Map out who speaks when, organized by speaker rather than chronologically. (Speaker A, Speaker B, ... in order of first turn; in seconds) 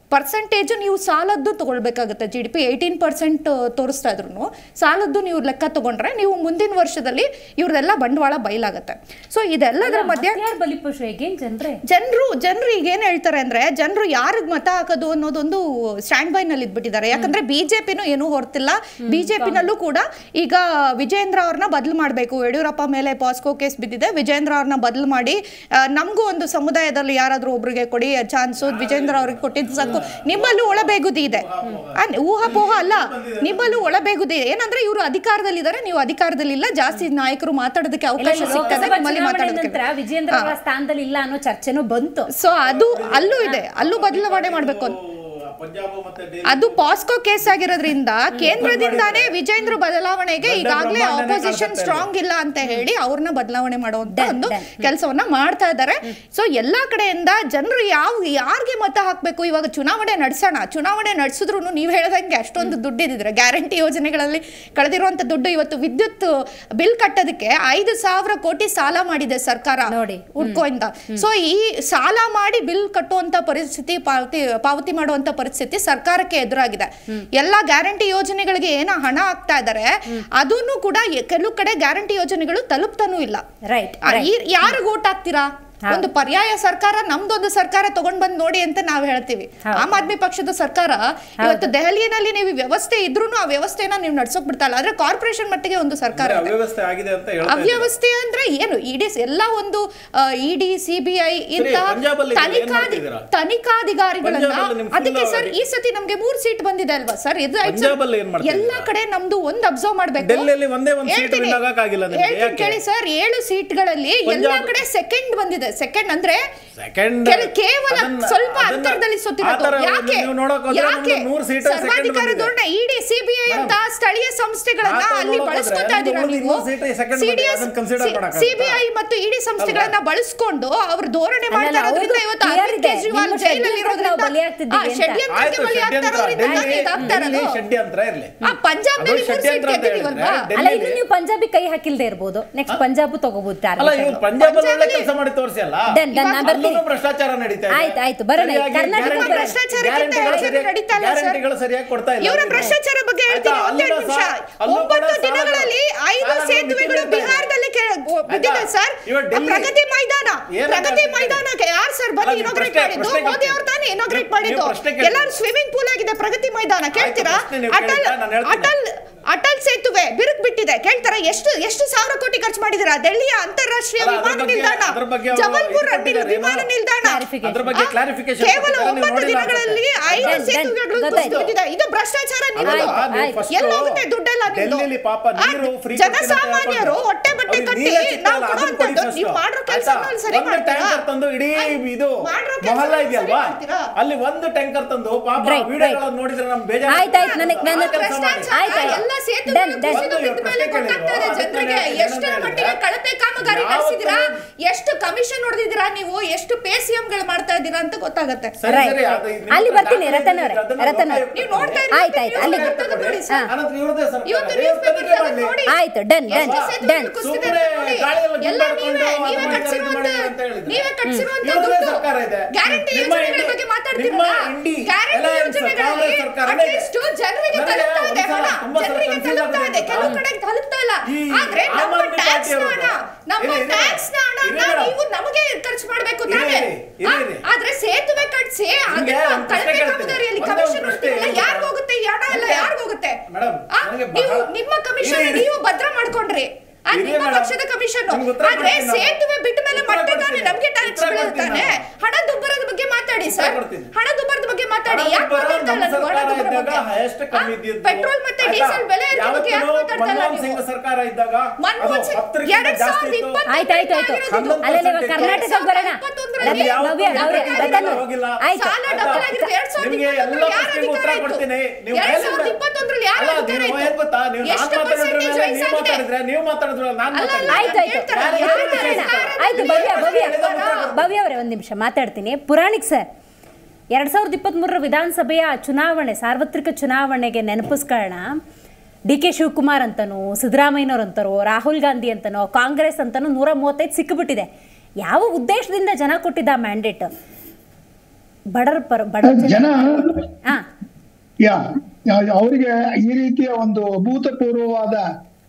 Speaker A: 0.1-10.4, 11.9-31.4, 32.0-39.8, 42.4-44.9, 46.5-83.4, 84.0-96.6, 97.4-110.5, 111.0-116.4, 117.2-137.6, 138.4-140.4, 144.4-145.1, 146.2-146.6, 149.0-151.4, 152.2-184.9, 185.4-191.0, 192.2-193.9, 197.0-208.6, 211.3-213.5, 214.2-215.7, 216.3-260.6, 261.6-276.0, 277.1-280.9
Speaker B: 9.8-11.8, 19.1-19.6, 38.2-42.3, 54.1-54.8, 69.9-71.2, 83.6-84.3, 91.4-91.7, 131.5-135.2, 136.4-137.1, 140.6-144.3, 145.9-146.8, 147.7-149.5, 150.2-150.5, 177.0-177.8, 180.2-181.4, 182.6-183.4, 195.4-196.0, 196.9-198.0, 198.5-200.0, 208.7-211.2, 211.9-212.7, 215.7-217.1, 263.5-269.5, 277.5-283.0, 283.9-288.3, 289.1-294.5, 295.0-297.1, 298.5-300.6
Speaker C: 28.6-33.8, 38.3-38.9, 42.6-46.8, 48.4-49.3, 50.4-52.1, 96.1-97.9, 101.5-103.2, 104.2-105.5, 107.6-108.9, 110.2-112.8, 114.2-114.7, 116.8-122.5, 123.5-123.8, 124.8-128.8, 129.6-129.9, 135.3-138.4, 138.9-141.0, 143.8-145.8, 146.4-152.8, 153.3-157.5, 158.3-159.7, 160.5-161.4, 162.2-165.4, 166.9-168.7, 174.0-176.7, 177.4-180.5, 181.0-181.5, 182.6-199.0, 199.8-202.8, 203.4-204.3, 208.6-211.8, 212.3-215.6, 216.3-220.9, 221.4-226.9, 227.5-230.2, 231.0-234.9, 236.3-237.4, 238.9-241.7, 242.3-242.7, 243.3-245.5, 246.9-247.5, 248.1-249.1, 249.7-251.8, 253.2-253.9, 254.9-263.4, 264.2-265.4, 266.4-272.6, 273.1-281.0
Speaker D: 299.2-300.2, 301.4-305.0